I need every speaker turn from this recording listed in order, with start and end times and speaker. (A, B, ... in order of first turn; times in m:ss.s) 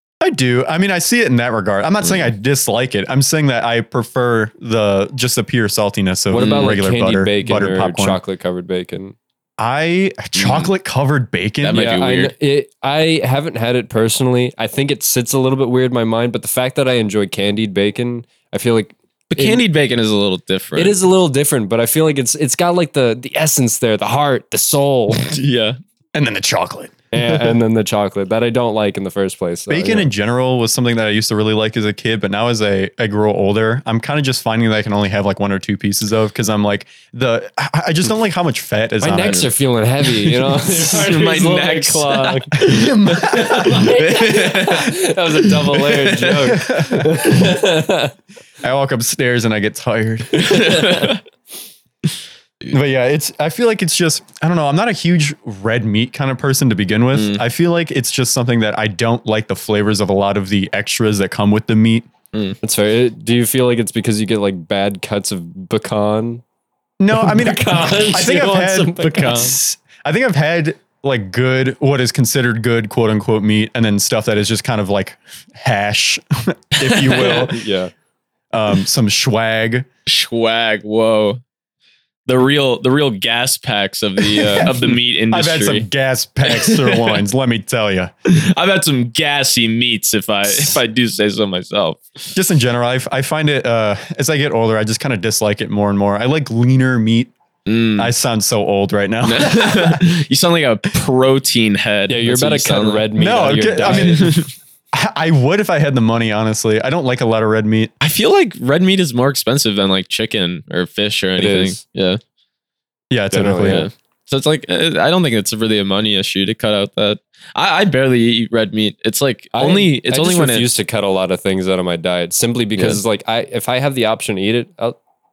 0:00.2-0:08.2 A
0:06.3-0:09.2 B
0:06.4-0:06.8 C
0:09.6-0:11.9 A
0:10.4-0:10.7 C
0:11.6-0:12.3 C
0:11.7-0:19.6 B
0:19.3-0:21.0 C
0:20.8-0:25.3 B
0:25.2-0:25.8 C
0:26.2-0:27.0 A
0:27.1-0:30.1 B
0:27.2-0:27.5 C
0:29.7-0:39.5 A
0:39.0-0:42.6 B
0:39.2-0:39.5 C
0:40.2-0:46.5 C
0:42.6-0:44.0 A
0:43.2-0:48.1 B
0:46.5-0:47.3 A
0:48.6-0:50.8 A
0:50.4-0:51.2 C
0:50.5-0:51.1 B
0:52.7-1:02.1 A
0:57.1-0:57.4 C
1:02.6-1:06.4 B
1:07.0-1:17.6 A
1:07.1-1:09.6 B
1:16.8-1:17.5 C
1:17.5-1:17.9 B
1:18.5-1:19.9 A
1:20.1-1:21.4 C
1:22.3-1:25.9 C
1:24.2-1:28.1 A
1:26.4-1:27.2 C
1:28.3-1:32.0 C
1:30.5-1:30.8 A
1:32.3-1:37.3 A
1:37.7-1:38.1 C
1:38.0-1:40.0 A
1:39.2-1:43.1 C
1:42.1-1:44.3 B
1:43.2-1:47.9 A
1:43.8-1:44.4 C
1:48.0-1:52.2 C
1:51.4-1:51.8 B
1:53.1-1:53.9 A
1:53.3-1:53.9 B
1:53.6-2:00.7 C
1:59.5-2:05.0 B